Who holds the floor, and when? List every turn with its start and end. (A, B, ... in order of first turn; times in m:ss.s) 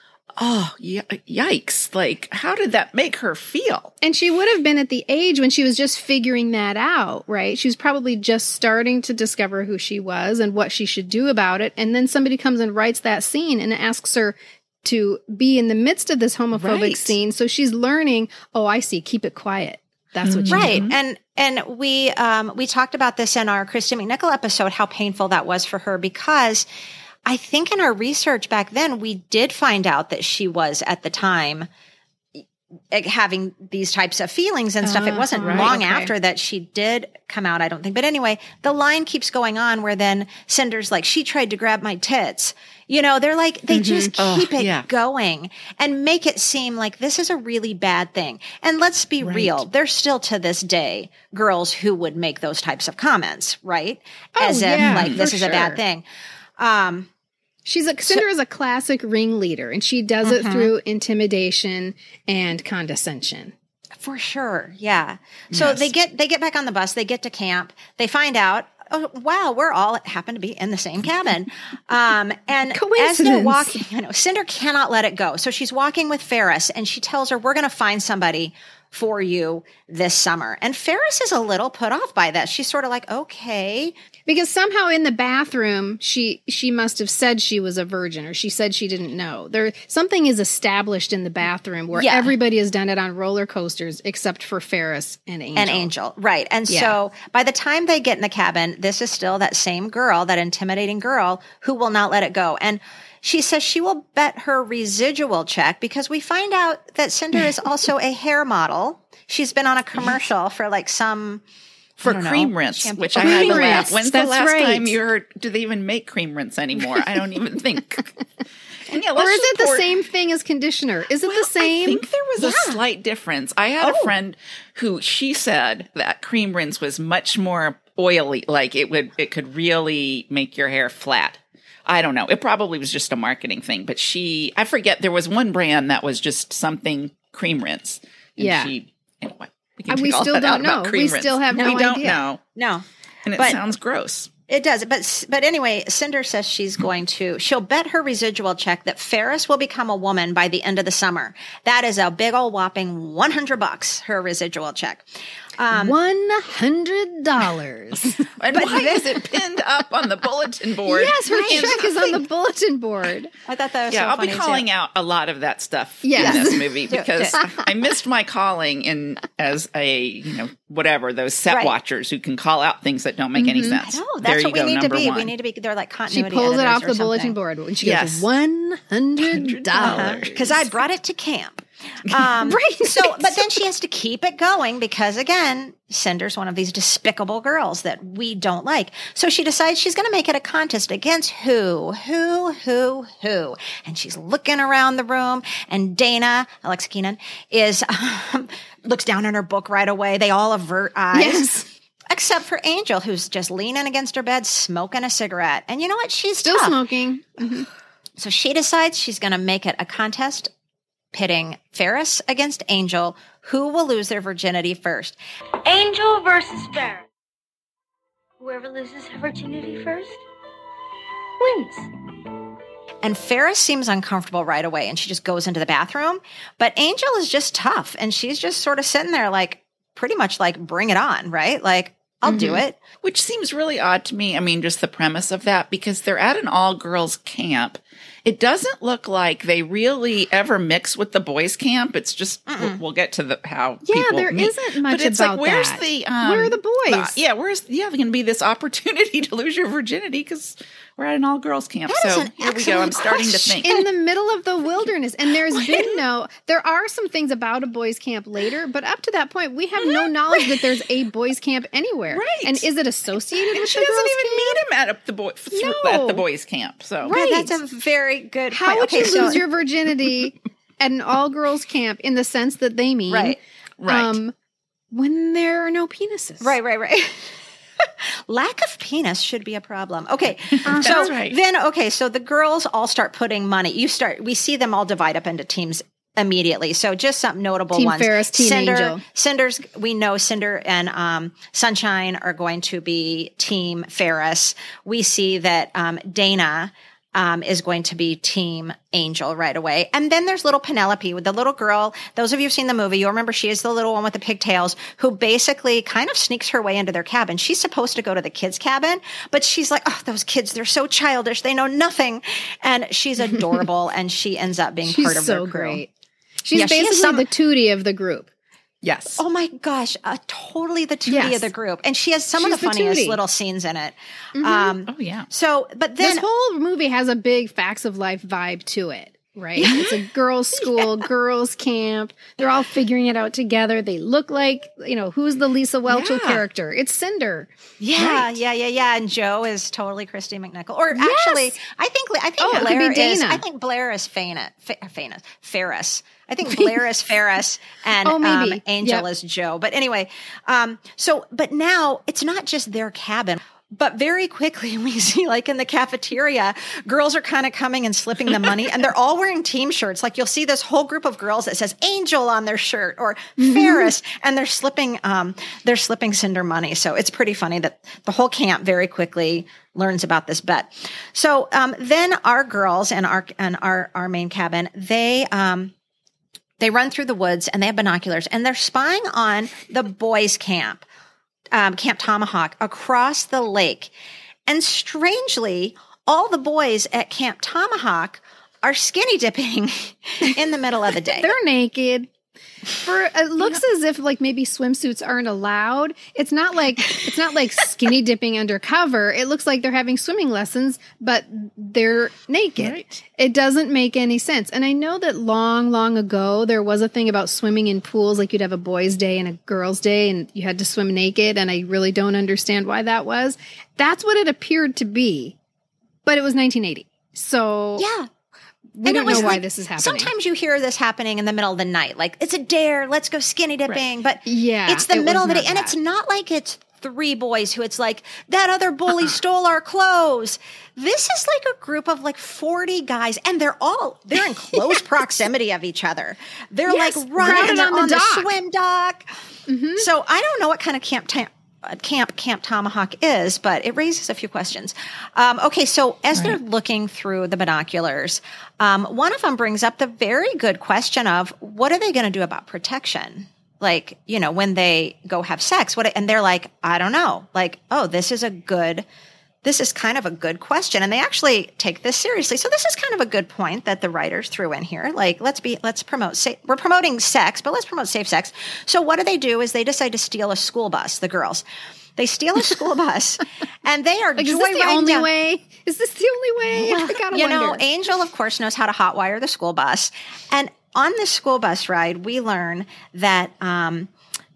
0:00.4-0:03.9 A
0:04.0-0:20.8 B
0:16.5-0:17.1 A
0:20.2-0:20.9 A
0:20.5-0:26.7 C
0:27.3-0:31.7 C
0:32.4-0:56.0 C
0:34.8-0:36.1 B
0:35.4-0:35.7 A
0:43.7-0:44.1 B
0:44.2-0:44.9 A
0:54.4-0:55.8 B
0:54.8-0:55.2 A
0:56.6-0:57.1 C
0:57.6-1:03.5 B
1:00.2-1:00.7 C
1:04.0-1:23.9 C
1:05.5-1:05.9 A
1:12.7-1:13.8 B
1:24.3-1:35.9 B
1:32.0-1:32.3 C
1:35.6-1:51.4 C
1:36.7-1:37.0 B
1:52.0-1:58.1 A
1:52.0-1:53.9 C
1:53.2-1:54.9 B
1:58.9-1:59.9 A
1:59.1-2:02.0 B
2:01.2-2:22.4 A
2:02.4-2:02.8 C
2:03.8-2:04.1 C
2:18.4-2:18.7 B
2:19.9-2:22.2 B
2:21.6-2:22.0 C
2:22.5-2:22.8 C
2:23.2-2:24.3 A
2:24.5-2:35.1 C
2:35.6-2:36.0 C
2:35.7-2:38.9 B
2:38.4-2:42.2 A
2:38.5-2:39.0 C
2:40.8-2:43.3 B
2:41.3-2:41.9 C
2:43.5-2:44.6 C
2:43.9-2:55.3 A
2:46.0-2:46.8 B
2:46.2-2:47.4 C
2:51.5-2:51.8 C
2:53.4-2:53.8 B
2:53.8-2:57.3 C
2:56.1-3:00.3 B
2:57.8-2:58.3 A
2:59.2-3:00.7 A
2:59.8-3:21.5 C
3:02.4-3:03.6 B
3:21.1-3:21.7 B
3:22.1-3:26.8 C
3:26.4-3:27.7 B
3:28.2-3:30.5 C
3:31.1-3:35.2 C
3:35.6-3:37.0 D
3:38.4-3:40.2 D
3:41.4-3:41.9 D
3:43.0-3:52.8 C
3:52.3-3:52.6 B
3:53.0-4:13.8 A
4:02.5-4:02.8 C
4:03.8-4:07.2 B
4:11.9-4:13.7 C
4:13.6-4:24.6 B
4:15.6-4:15.9 A
4:22.3-4:22.6 C
4:23.5-4:27.1 A
4:25.5-4:26.2 B
4:27.0-4:27.6 B
4:27.0-4:29.4 C
4:28.5-4:34.3 B
4:33.1-4:33.4 C
4:33.8-4:34.2 A
4:34.9-4:36.5 B
4:36.4-5:15.8 C
4:40.6-4:41.4 A
4:40.6-4:41.1 B
4:47.7-4:49.0 B
5:14.8-5:15.9 B
5:16.4-5:18.3 B
5:16.5-5:17.2 C
5:18.9-5:19.2 B
5:19.2-5:26.2 C
5:21.1-5:21.5 B
5:22.4-5:23.2 B
5:24.3-5:24.8 B
5:24.9-5:25.3 A
5:26.0-5:37.5 B
5:29.6-5:29.9 C
5:35.8-5:36.4 A
5:37.8-6:15.7 C
5:38.0-5:38.3 A
5:40.9-5:41.6 B
5:42.4-5:43.4 B
5:46.5-5:46.7 B
5:48.0-5:49.0 B
6:03.4-6:03.9 B
6:16.6-6:20.8 C
6:21.5-6:23.9 C
6:24.5-6:31.3 C
6:31.2-6:32.1 B
6:32.7-6:55.4 B
6:42.6-6:43.0 A
6:56.0-6:57.8 B
6:57.8-6:58.1 C
6:58.8-7:00.1 B
6:58.8-7:19.1 C
6:59.0-6:59.4 A
7:04.2-7:05.7 B
7:16.7-7:18.4 B
7:19.5-7:19.9 B
7:19.8-7:38.8 C
7:39.4-7:51.4 C
7:52.0-7:55.1 C
7:54.2-7:57.6 B
7:56.5-8:03.9 C